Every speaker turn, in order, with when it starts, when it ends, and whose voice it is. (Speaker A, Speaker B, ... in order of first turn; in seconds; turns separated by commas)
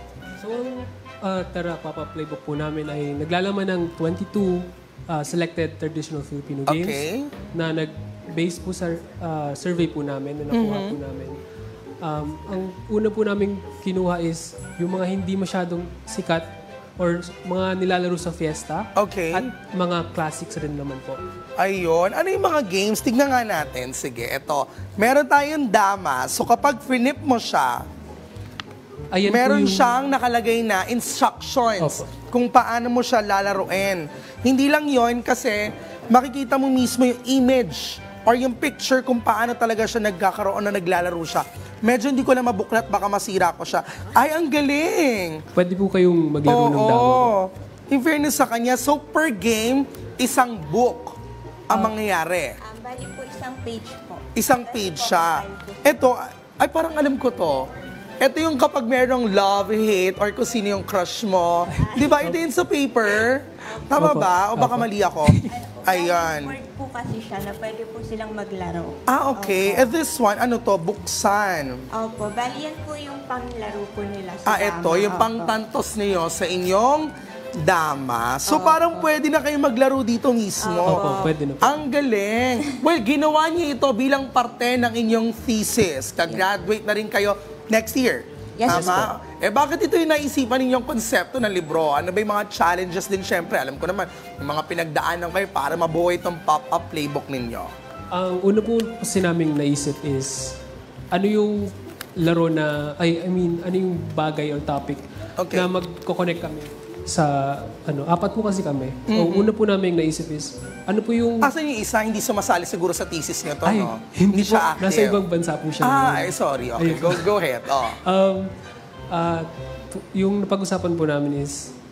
Speaker A: 0.4-11.4, Speaker B: 6.7-7.3, Speaker B: 10.5-11.0, Speaker A: 12.0-21.2, Speaker B: 18.9-19.5, Speaker B: 21.6-27.8, Speaker A: 29.1-30.0, Speaker B: 29.2-45.4, Speaker A: 31.8-32.1, Speaker A: 45.5-47.3, Speaker B: 46.4-51.1, Speaker B: 51.7-52.6, Speaker C: 52.6-56.0, Speaker B: 54.4-57.7, Speaker B: 58.2-66.5, Speaker A: 61.6-62.4, Speaker C: 61.8-62.3, Speaker C: 63.6-63.9, Speaker A: 64.0-65.6, Speaker C: 65.4-70.0, Speaker B: 69.1-71.8, Speaker C: 72.0-75.5, Speaker B: 74.5-97.7, Speaker C: 78.5-79.1, Speaker C: 80.6-81.3, Speaker A: 80.8-81.8, Speaker C: 88.6-89.0, Speaker A: 88.7-89.1, Speaker A: 98.1-100.6, Speaker A: 101.1-111.5, Speaker B: 105.4-105.7, Speaker B: 109.1-109.5, Speaker B: 111.4-115.2, Speaker A: 113.6-117.3, Speaker B: 115.8-118.0, Speaker A: 118.0-118.5, Speaker A: 119.1-121.7